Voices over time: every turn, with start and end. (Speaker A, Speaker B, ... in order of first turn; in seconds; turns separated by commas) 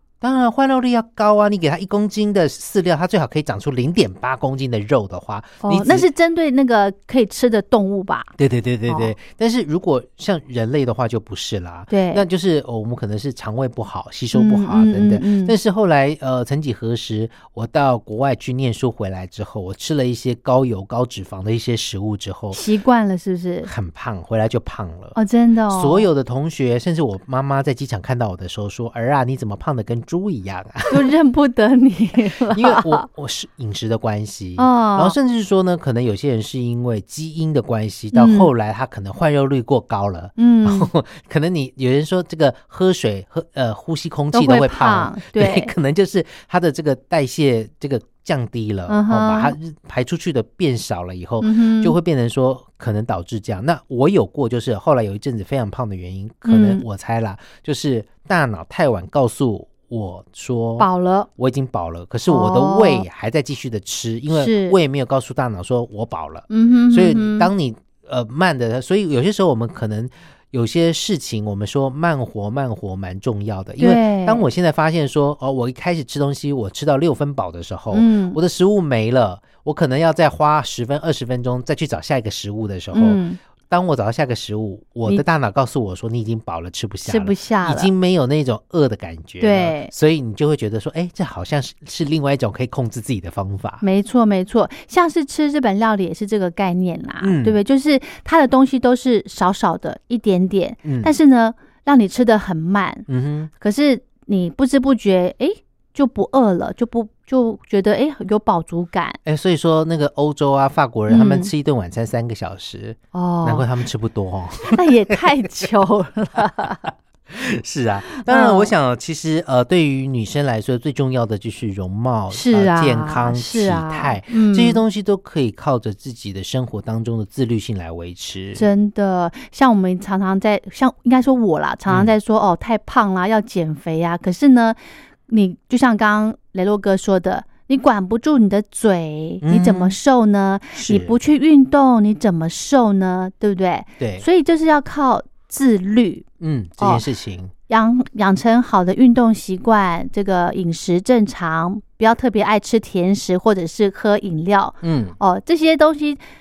Speaker A: 0.2-6.1, Speaker B: 5.6-8.3, Speaker A: 8.4-22.6, Speaker B: 8.9-9.1, Speaker B: 11.9-12.2, Speaker B: 14.3-15.6, Speaker B: 22.5-23.7, Speaker A: 23.6-25.2, Speaker B: 25.1-26.1, Speaker A: 25.7-31.1, Speaker B: 30.9-33.1, Speaker A: 32.5-93.8, Speaker B: 34.6-35.2, Speaker B: 38.1-38.5, Speaker B: 40.4-40.9, Speaker B: 44.3-45.7, Speaker B: 48.9-49.6, Speaker B: 51.4-52.0, Speaker B: 56.5-56.8, Speaker B: 60.8-61.3, Speaker B: 62.3-63.1, Speaker B: 64.3-64.8, Speaker B: 66.5-67.5, Speaker B: 73.8-74.5, Speaker B: 77.9-78.4, Speaker B: 82.9-83.4, Speaker B: 87.0-87.9, Speaker B: 89.4-89.9, Speaker B: 93.8-103.1, Speaker A: 97.2-97.6, Speaker A: 100.8-101.1, Speaker A: 103.1-103.5, Speaker B: 103.6-109.2, Speaker A: 109.2-115.2, Speaker B: 111.1-111.5, Speaker B: 113.1-113.7, Speaker B: 114.7-116.9, Speaker A: 117.3-128.7, Speaker B: 118.1-118.7, Speaker B: 122.3-124.8, Speaker B: 128.6-146.2, Speaker A: 131.9-132.1, Speaker A: 139.4-140.0, Speaker A: 140.8-141.2, Speaker A: 144.0-144.2, Speaker A: 146.4-147.5, Speaker B: 146.8-147.0, Speaker B: 147.7-156.2, Speaker A: 154.8-155.2